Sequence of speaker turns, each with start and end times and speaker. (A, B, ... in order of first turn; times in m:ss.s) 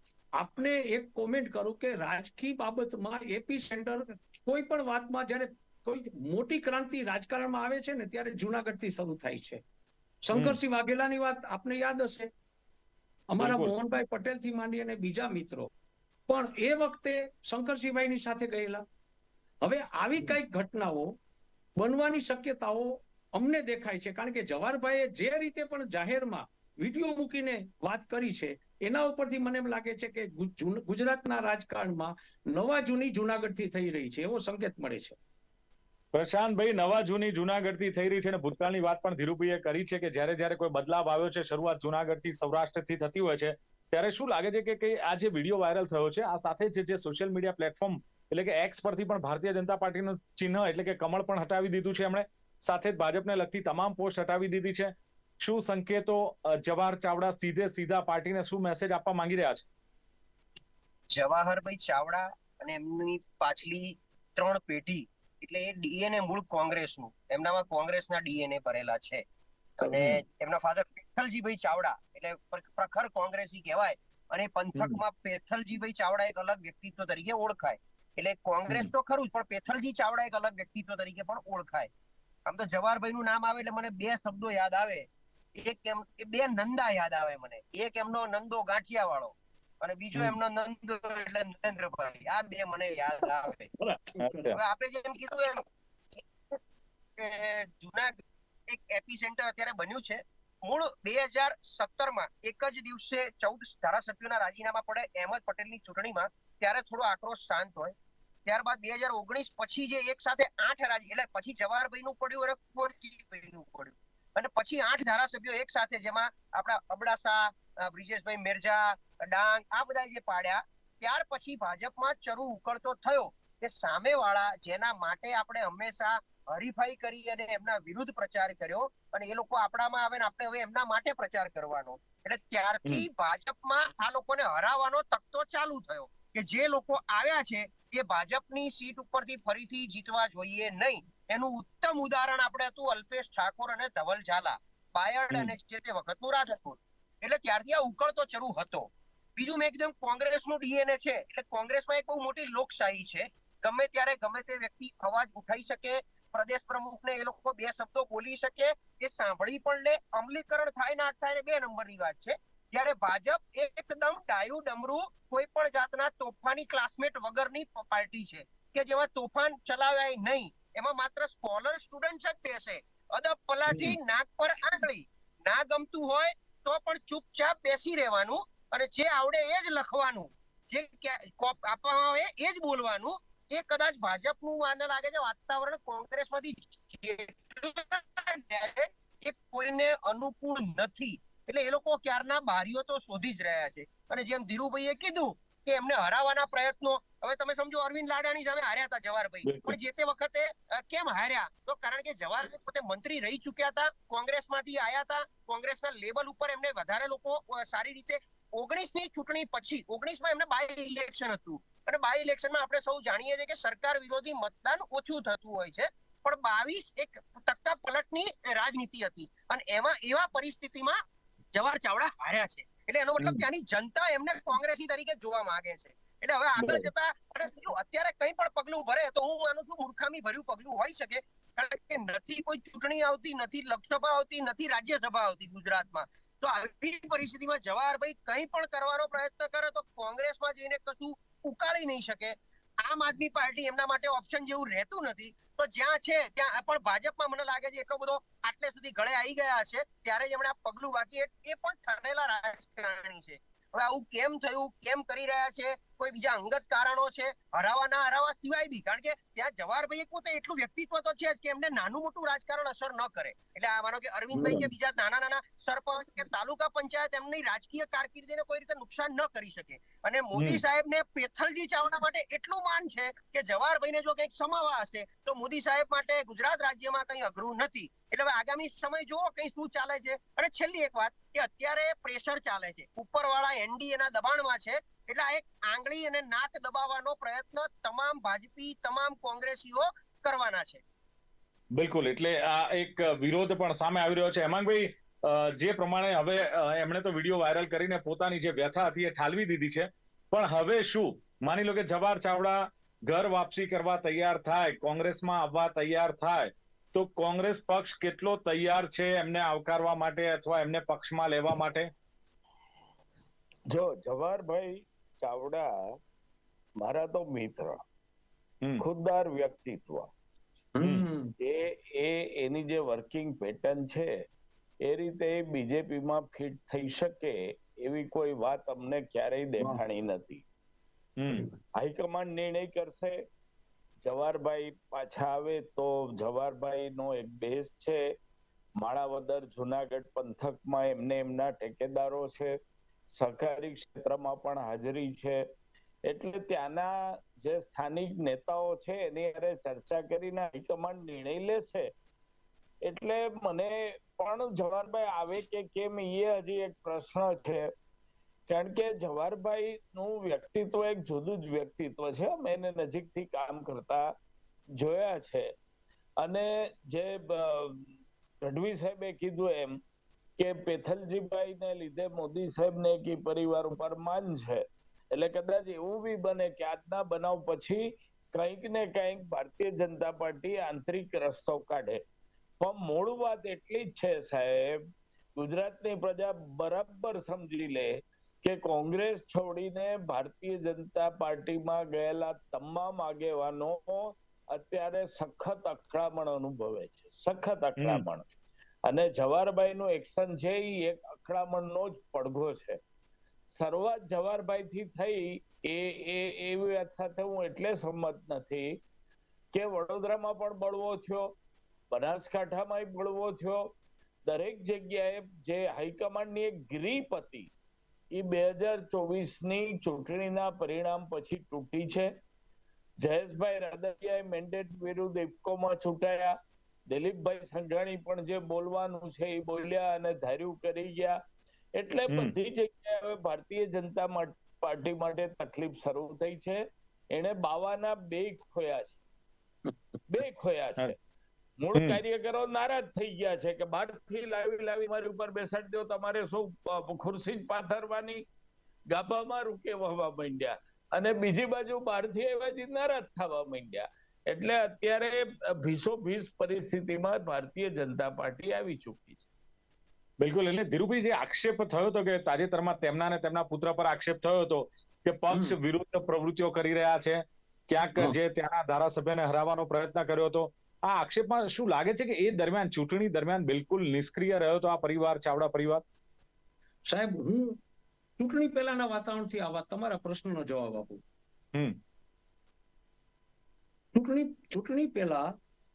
0:00.4-0:09.6 A
0:10.2-0:12.3 A
0:13.3-0:15.7 A
0:13.4-0:13.7 B
0:16.3-0:18.8 A
0:19.6-0:21.1 A
0:21.8-0:35.2 A
0:36.1-0:59.6 B
1:01.1-1:09.2 C
1:09.8-1:21.9 C
1:09.8-1:10.2 B
1:14.8-1:15.0 B
1:22.5-1:25.1 C
1:25.6-1:33.7 C
1:33.8-1:34.5 A
1:34.2-1:34.6 B
1:34.6-1:35.6 C
1:36.2-1:36.6 C
1:37.2-1:48.0 C
1:48.5-3:41.0 C
3:19.4-3:19.8 B
3:41.5-4:50.8 C
3:46.6-3:46.9 B
4:24.3-4:24.7 B
4:30.4-4:30.6 B
4:51.8-5:11.9 B
5:13.7-5:15.7 D
5:16.8-5:17.8 D
5:18.8-5:20.1 D
5:20.8-5:21.3 A
5:21.4-5:24.2 D
5:24.8-5:30.4 D
5:31.2-5:31.4 B
5:31.8-5:33.2 D
5:34.0-5:38.0 D
5:38.8-5:42.6 D
5:43.1-5:45.4 D
5:46.1-5:51.9 D
5:52.8-5:57.7 D
5:58.5-6:04.1 D
6:04.8-6:05.5 D
6:06.2-6:07.9 D
6:08.4-6:09.8 D
6:10.4-6:22.0 D
6:22.6-6:24.8 D
6:25.4-6:38.3 D
6:37.8-6:38.0 B
6:38.9-6:42.8 D
6:43.5-6:48.8 D
6:49.5-6:51.3 D
6:51.9-6:53.7 D
6:54.3-6:57.5 D
6:58.1-7:02.1 D
7:03.0-7:06.4 D
7:06.9-7:11.2 D
7:11.8-7:19.0 D
7:20.1-7:21.0 D
7:21.6-7:28.2 D
7:21.7-7:22.0 B
7:28.9-7:39.3 D
7:40.2-7:55.8 B
7:45.3-7:45.6 A
7:56.9-7:57.6 A
7:58.2-8:01.0 A
8:04.0-8:05.3 A